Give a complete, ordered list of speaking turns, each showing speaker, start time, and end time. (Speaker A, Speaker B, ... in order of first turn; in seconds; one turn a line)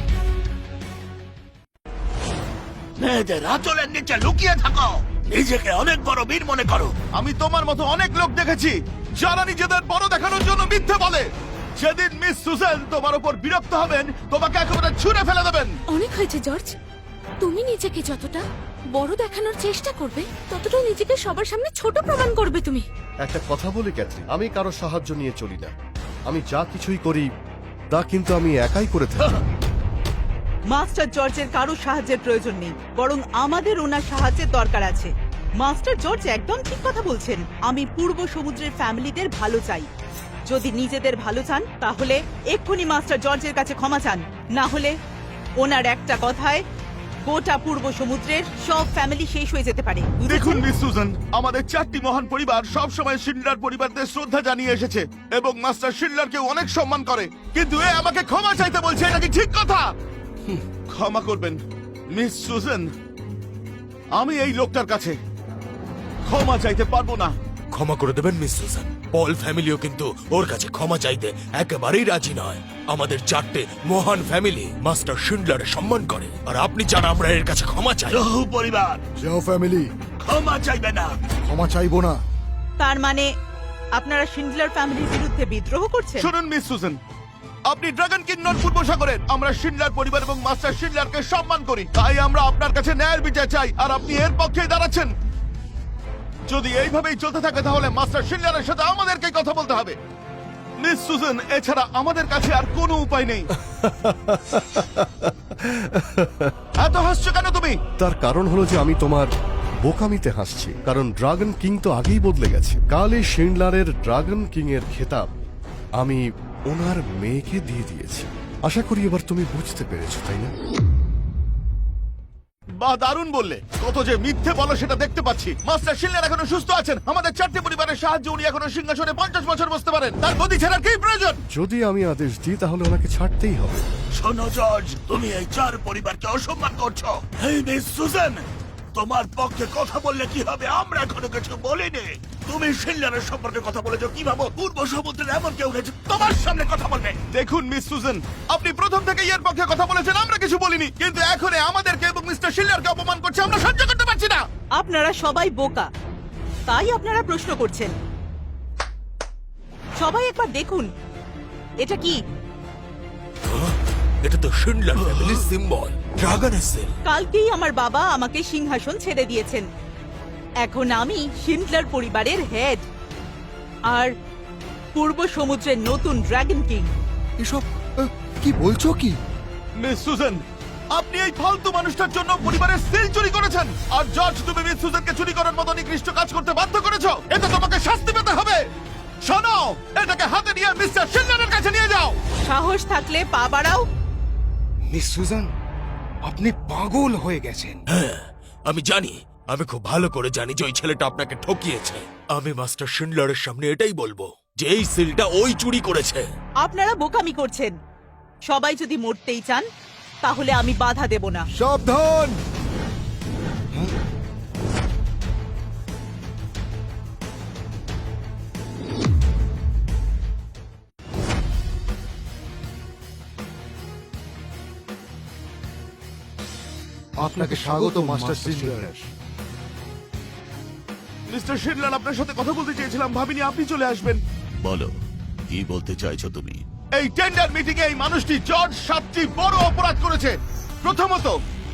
Speaker A: 3.0-6.9
Speaker B: 7.2-15.7
Speaker C: 15.9-16.7
Speaker C: 17.4-18.4
Speaker C: 18.9-22.8
Speaker D: 23.2-25.7
Speaker D: 26.3-27.2
Speaker D: 27.9-29.4
Speaker E: 30.7-39.9
Speaker E: 40.5-44.9
Speaker E: 45.6-46.6
Speaker E: 47.2-50.6
Speaker B: 50.3-59.8
Speaker B: 60.9-61.6
Speaker B: 62.1-62.9
Speaker B: 64.1-65.2
Speaker B: 66.2-67.3
Speaker F: 67.7-78.2
Speaker A: 78.1-79.0
Speaker G: 79.2-79.9
Speaker A: 80.2-81.1
Speaker G: 81.5-82.2
Speaker E: 82.8-83.3
Speaker E: 84.0-86.3
Speaker B: 86.2-87.0
Speaker B: 87.7-95.1
Speaker B: 96.5-100.0
Speaker B: 100.8-103.5
Speaker D: 103.8-106.5
Speaker B: 106.8-107.8
Speaker D: 108.0-109.3
Speaker D: 109.8-115.3
Speaker D: 116.0-120.5
Speaker B: 122.8-131.4
Speaker D: 131.5-133.8
Speaker A: 134.2-147.2
Speaker B: 147.3-154.4
Speaker E: 154.8-155.9
Speaker E: 156.7-157.9
Speaker E: 160.0-160.9
Speaker E: 161.8-162.2
Speaker F: 163.5-166.9
Speaker E: 167.0-169.6
Speaker E: 170.6-172.8
Speaker E: 174.9-176.9
Speaker G: 177.4-179.2
Speaker B: 179.8-180.4
Speaker B: 180.9-188.7
Speaker B: 189.2-192.2
Speaker E: 192.4-193.8
Speaker H: 194.9-195.5
Speaker H: 196.2-197.8
Speaker F: 197.9-206.2
Speaker E: 206.6-207.7
Speaker E: 208.5-209.6
Speaker E: 210.2-211.4
Speaker G: 211.6-212.3
Speaker G: 227.2-229.0
Speaker H: 227.3-228.9
Speaker B: 231.3-234.2
Speaker A: 234.6-234.9
Speaker A: 235.5-236.6
Speaker B: 236.9-241.4